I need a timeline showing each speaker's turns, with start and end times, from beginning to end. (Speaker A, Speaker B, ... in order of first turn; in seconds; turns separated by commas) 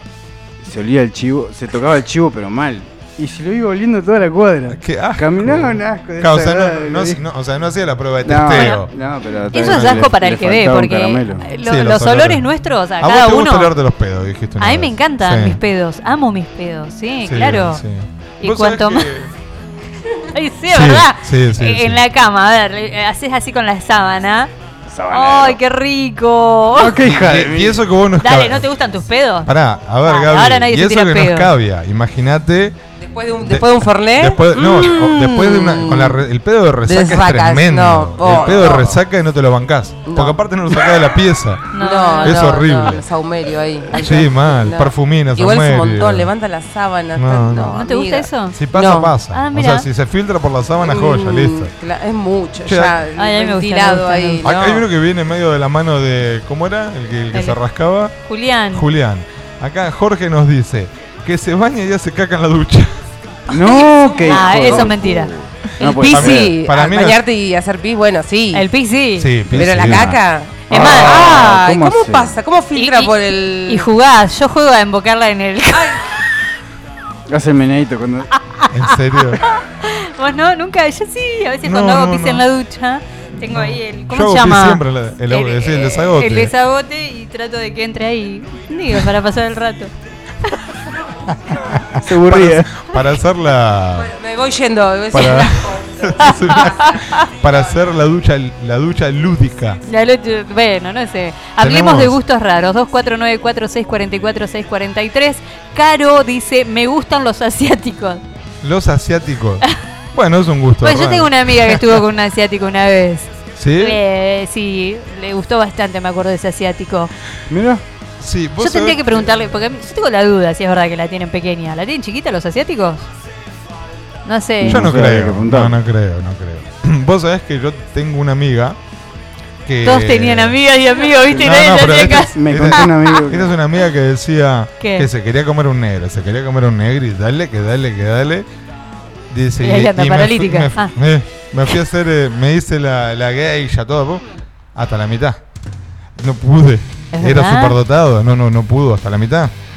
Speaker A: 0.6-7.2, Speaker B: 4.7-8.9, Speaker A: 8.2-11.5, Speaker C: 8.5-8.8, Speaker C: 9.5-13.7, Speaker B: 9.6-10.1, Speaker B: 11.6-12.5, Speaker B: 13.0-15.6, Speaker C: 14.6-17.8, Speaker B: 17.3-19.3, Speaker C: 18.4-19.1, Speaker C: 20.3-24.5, Speaker B: 20.7-22.0, Speaker A: 24.9-25.6, Speaker C: 25.1-27.0, Speaker A: 26.8-27.8, Speaker B: 27.1-28.7, Speaker C: 28.2-29.5, Speaker B: 29.4-32.8, Speaker C: 30.0-31.5, Speaker D: 33.0-36.2, Speaker B: 33.4-43.0, Speaker D: 36.9-39.0, Speaker D: 40.0-40.9, Speaker C: 41.7-42.5, Speaker D: 41.8-49.1, Speaker B: 43.9-46.3, Speaker B: 47.1-47.8, Speaker C: 47.8-48.6, Speaker B: 48.5-51.7, Speaker C: 49.3-49.9, Speaker D: 50.8-54.8, Speaker B: 52.6-53.0, Speaker C: 53.2-54.4, Speaker B: 54.4-58.1, Speaker C: 57.3-57.6, Speaker C: 58.2-58.9, Speaker B: 58.7-63.0, Speaker A: 63.5-66.5, Speaker C: 63.7-65.3, Speaker D: 64.0-64.9, Speaker D: 65.8-68.7, Speaker B: 66.1-67.2, Speaker C: 68.5-69.3, Speaker B: 69.2-70.2, Speaker D: 69.5-73.9, Speaker C: 70.7-71.4, Speaker A: 70.7-72.3, Speaker C: 72.8-73.1, Speaker C: 73.7-76.0, Speaker D: 75.7-76.0, Speaker A: 77.3-78.3, Speaker B: 78.7-79.4, Speaker C: 79.4-89.9, Speaker B: 81.7-82.5, Speaker B: 83.5-86.5, Speaker B: 91.3-94.1, Speaker A: 92.0-92.7, Speaker D: 94.0-97.0, Speaker B: 95.1-99.8, Speaker C: 96.2-96.9, Speaker C: 99.9-108.2, Speaker B: 101.6-102.2, Speaker B: 108.6-109.6, Speaker B: 110.1-111.8, Speaker C: 110.8-117.1, Speaker B: 113.6-114.0, Speaker A: 117.5-117.8, Speaker B: 118.2-119.2, Speaker C: 118.6-123.1, Speaker C: 124.3-124.8, Speaker A: 124.6-125.8, Speaker B: 124.6-128.8, Speaker B: 129.7-130.6, Speaker C: 129.8-133.2, Speaker B: 131.3-138.5, Speaker A: 132.3-133.5, Speaker C: 134.8-135.1, Speaker B: 139.3-144.2, Speaker C: 139.6-140.9, Speaker B: 144.8-145.4, Speaker B: 146.2-149.5, Speaker C: 147.1-147.8